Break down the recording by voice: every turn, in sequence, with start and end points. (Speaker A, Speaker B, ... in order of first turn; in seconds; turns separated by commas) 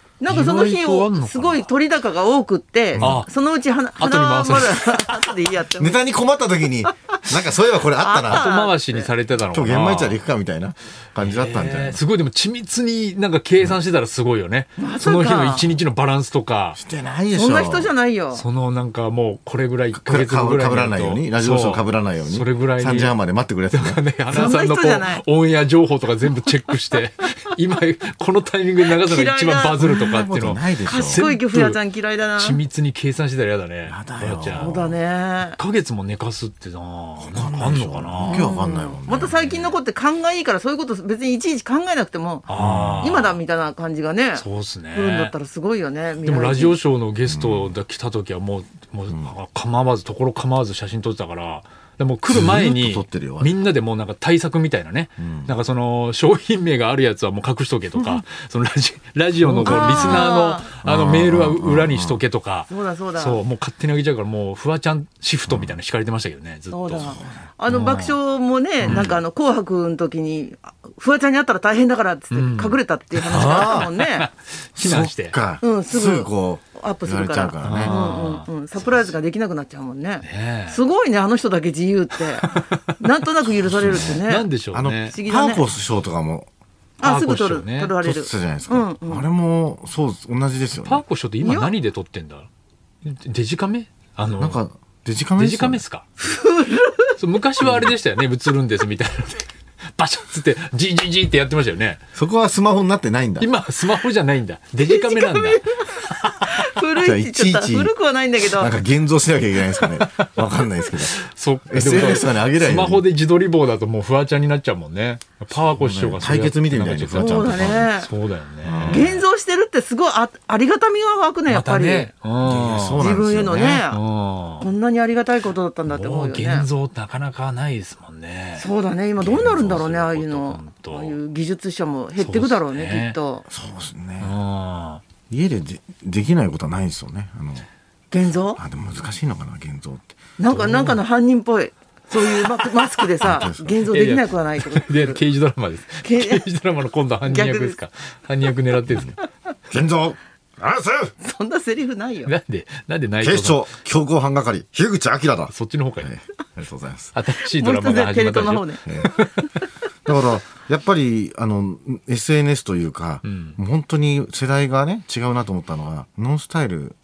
Speaker A: 0.2-6.0, Speaker B: 0.3-1.7, Speaker C: 2.9-3.2, Speaker B: 3.0-3.3, Speaker B: 4.0-5.3, Speaker C: 5.8-8.5, Speaker A: 8.0-9.1, Speaker B: 8.3-10.2, Speaker C: 9.5-12.0, Speaker B: 11.2-16.8, Speaker A: 14.8-15.6, Speaker C: 16.8-17.9, Speaker A: 17.3-18.4, Speaker B: 18.3-23.1, Speaker C: 19.9-24.0, Speaker B: 23.7-31.8, Speaker A: 24.3-25.2, Speaker A: 28.9-30.0, Speaker C: 29.8-31.2, Speaker A: 30.9-32.6, Speaker B: 32.4-34.8, Speaker C: 33.9-35.0, Speaker A: 34.5-35.6, Speaker B: 35.6-38.7, Speaker C: 37.2-39.3, Speaker A: 38.2-42.5, Speaker B: 39.2-39.8, Speaker B: 42.5-43.4, Speaker C: 42.5-43.2, Speaker A: 43.0-46.8, Speaker B: 44.3-45.3, Speaker B: 46.2-67.2, Speaker C: 47.2-47.8, Speaker C: 49.1-49.3, Speaker C: 52.3-53.5, Speaker C: 55.2-55.5, Speaker C: 58.0-58.2, Speaker C: 59.4-60.3, Speaker A: 59.6-60.7, Speaker C: 60.8-62.2, Speaker A: 62.7-63.4, Speaker C: 65.5-65.8, Speaker A: 66.7-74.3, Speaker C: 66.9-67.5, Speaker B: 67.7-68.2, Speaker B: 68.8-69.2, Speaker B: 72.3-75.4, Speaker C: 73.3-73.9, Speaker C: 74.8-78.0, Speaker A: 75.6-84.5, Speaker B: 77.6-78.5, Speaker B: 80.2-80.8, Speaker B: 82.4-82.9, Speaker C: 83.6-84.2, Speaker B: 83.8-85.2, Speaker C: 84.7-86.5, Speaker A: 85.1-85.6, Speaker A: 87.0-89.2, Speaker B: 87.0-88.0, Speaker C: 88.0-91.0, Speaker B: 90.8-92.5, Speaker A: 91.4-91.7, Speaker B: 93.0-94.6, Speaker C: 94.4-95.8, Speaker B: 95.4-96.0, Speaker A: 96.2-97.2, Speaker B: 97.2-102.0, Speaker C: 97.6-97.9, Speaker C: 102.1-103.5, Speaker B: 103.4-106.4, Speaker A: 104.8-108.7, Speaker C: 107.0-113.0, Speaker B: 109.8-110.4, Speaker B: 111.2-119.2, Speaker C: 115.5-117.9, Speaker A: 117.1-118.1, Speaker C: 118.6-119.2, Speaker A: 118.9-122.1, Speaker B: 121.5-123.2, Speaker C: 122.4-123.8, Speaker A: 123.0-124.0, Speaker B: 123.9-124.7, Speaker A: 124.6-126.7, Speaker B: 125.9-128.7, Speaker A: 128.6-133.5, Speaker B: 129.2-131.2, Speaker B: 132.2-133.2, Speaker C: 133.5-134.3, Speaker B: 134.2-135.0, Speaker C: 135.3-137.7, Speaker A: 138.1-138.6, Speaker C: 138.6-140.1, Speaker A: 140.4-145.2, Speaker B: 140.5-141.0, Speaker C: 143.2-143.8, Speaker B: 143.9-149.2, Speaker A: 146.0-146.4, Speaker A: 147.2-147.8, Speaker C: 149.7-151.1, Speaker A: 151.2-152.3, Speaker B: 152.2-153.7, Speaker C: 153.2-157.1, Speaker B: 155.5-156.1, Speaker B: 157.1-159.6, Speaker A: 157.4-158.8, Speaker C: 158.8-159.1, Speaker C: 160.0-167.0, Speaker B: 163.2-163.6